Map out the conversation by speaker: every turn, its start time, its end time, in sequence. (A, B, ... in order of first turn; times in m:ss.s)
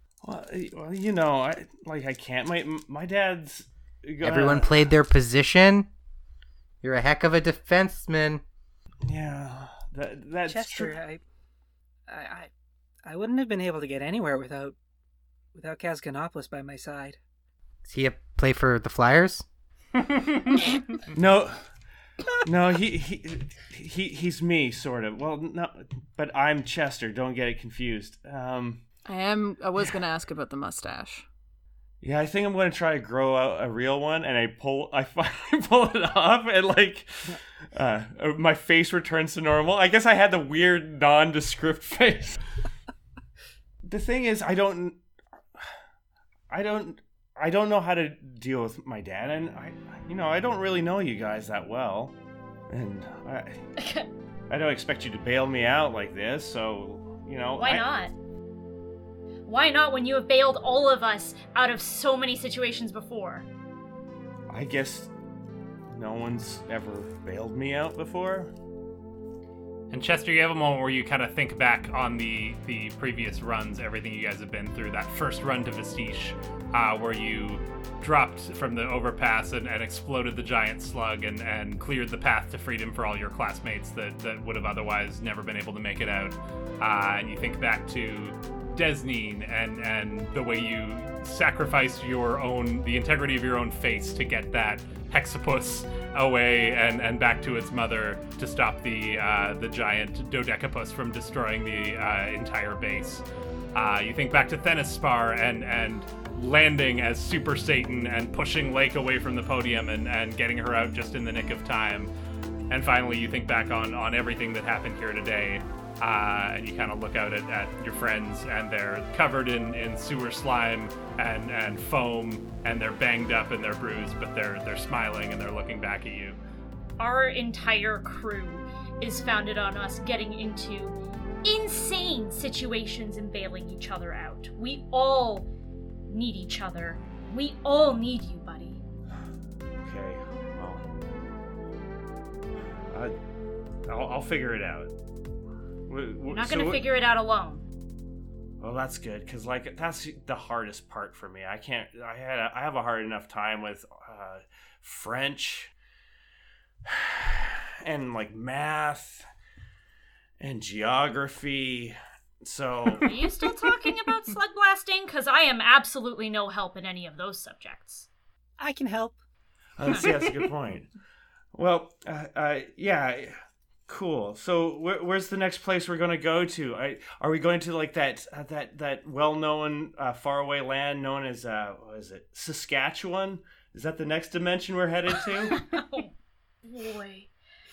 0:00.2-0:04.8 A
0:04.2-0:05.9 B
0:06.8-0:08.4 B
0:09.0-0:11.0 A
0:10.5-0:11.2 C
0:12.1-0:12.5 C
0:13.0-0:14.7 C
0:15.5-0:17.2 C
0:17.8-0:19.4 B
0:20.0-0:20.6 D
0:21.1-0:21.6 A
0:22.4-0:28.8 A
0:29.0-0:31.2 E
0:32.0-0:42.4 A
0:43.8-0:45.0 A
0:46.5-0:52.1 A
0:52.7-0:53.6 A
0:53.8-0:54.1 F
0:54.5-0:57.9 A
0:57.6-0:58.1 F
0:59.4-1:03.4 F
1:04.5-1:05.1 A
1:05.9-1:08.5 A
1:09.9-1:52.1 D
1:52.7-2:06.4 D
2:07.0-2:15.5 F
2:16.1-2:18.8 F
2:19.8-2:20.8 A
2:23.9-2:24.9 A
2:25.9-2:26.8 A
2:26.3-2:27.7 F
2:28.6-2:35.7 A
2:36.9-2:39.2 A
2:40.4-2:43.2 A
2:43.0-2:48.1 F
2:48.6-2:49.2 C
2:49.8-2:50.9 A
2:51.5-3:05.6 A
3:05.4-3:06.1 F
3:06.6-3:07.3 F